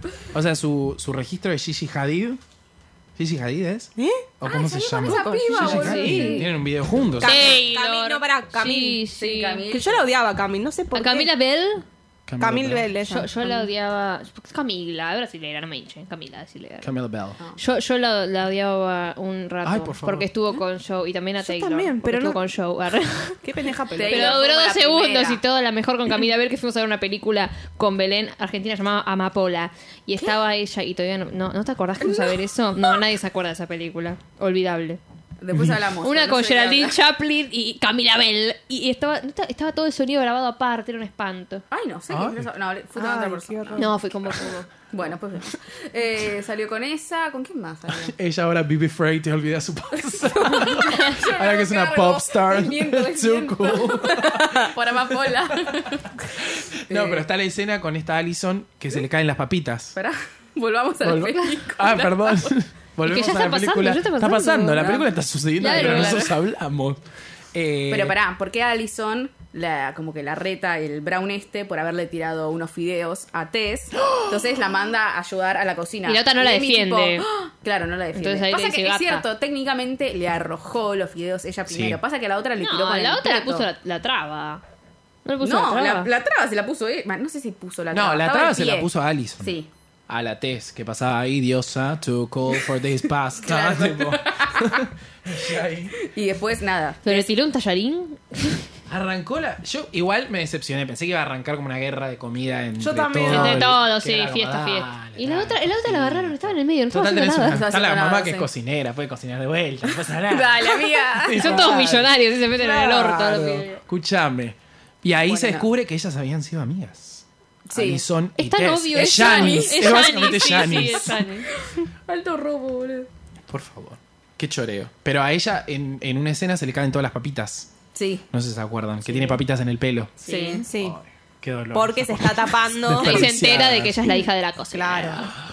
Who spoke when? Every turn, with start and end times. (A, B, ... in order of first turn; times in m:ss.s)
0:00.3-0:02.4 A
0:03.2-0:07.6 A
0:04.0-0:04.3 B
0:04.4-0:06.5 C
0:05.0-0:09.0 B
0:05.7-0:06.4 D
0:07.2-0:09.7 D
0:09.2-0:10.1 C
0:09.7-0:11.3 B
0:10.9-0:11.8 D
0:12.3-0:12.9 A
0:12.4-0:13.7 B
0:13.1-0:16.9 D
0:16.8-0:17.4 A
0:17.6-0:23.4 D
0:19.6-0:20.3 A
0:21.4-0:22.4 B
0:23.4-0:24.4 B
0:24.0-0:25.4 C
0:24.0-0:35.0 D
0:32.0-0:32.4 C
0:35.4-0:37.0 C
0:35.5-0:35.8 A
0:36.0-0:41.6 D
0:41.7-0:43.9 C
0:42.1-0:42.5 A
0:43.0-0:43.9 B
0:43.8-0:44.7 D
0:44.9-0:48.1 C
0:48.0-0:54.8 A
0:50.4-0:56.3 C
0:56.4-1:00.0 A
0:56.9-0:57.2 C
1:00.0-1:02.5 C
1:01.0-1:07.0 A
1:01.1-1:01.6 D
1:03.0-1:05.0 D
1:05.6-1:06.3 D
1:05.6-1:06.4 C
1:07.5-1:08.2 A
1:07.9-1:23.7 C
1:14.0-1:14.4 A
1:16.0-1:17.3 D
1:18.1-1:19.2 D
1:21.7-1:22.0 A
1:22.6-1:24.6 D
1:25.2-1:26.1 D
1:25.4-1:29.7 C
1:27.9-1:29.6 A
1:30.1-1:36.0 A
1:33.4-1:34.8 C
1:36.0-1:37.3 C
1:37.0-1:38.6 D
1:38.9-2:01.2 A
1:42.8-1:43.8 B
1:43.2-1:47.6 D
1:47.5-1:48.5 C
1:50.2-1:51.7 C
1:51.3-1:53.8 D
1:55.3-1:55.7 C
1:57.7-1:58.0 C
1:58.4-2:01.5 D
1:58.9-2:00.0 C
2:01.5-2:03.1 C
2:03.5-2:07.7 A
2:07.9-2:08.3 C
2:08.3-2:14.0 A
2:10.2-2:10.7 C
2:10.3-2:11.0 B
2:11.7-2:13.5 B
2:13.0-2:15.3 D
2:14.7-2:15.3 B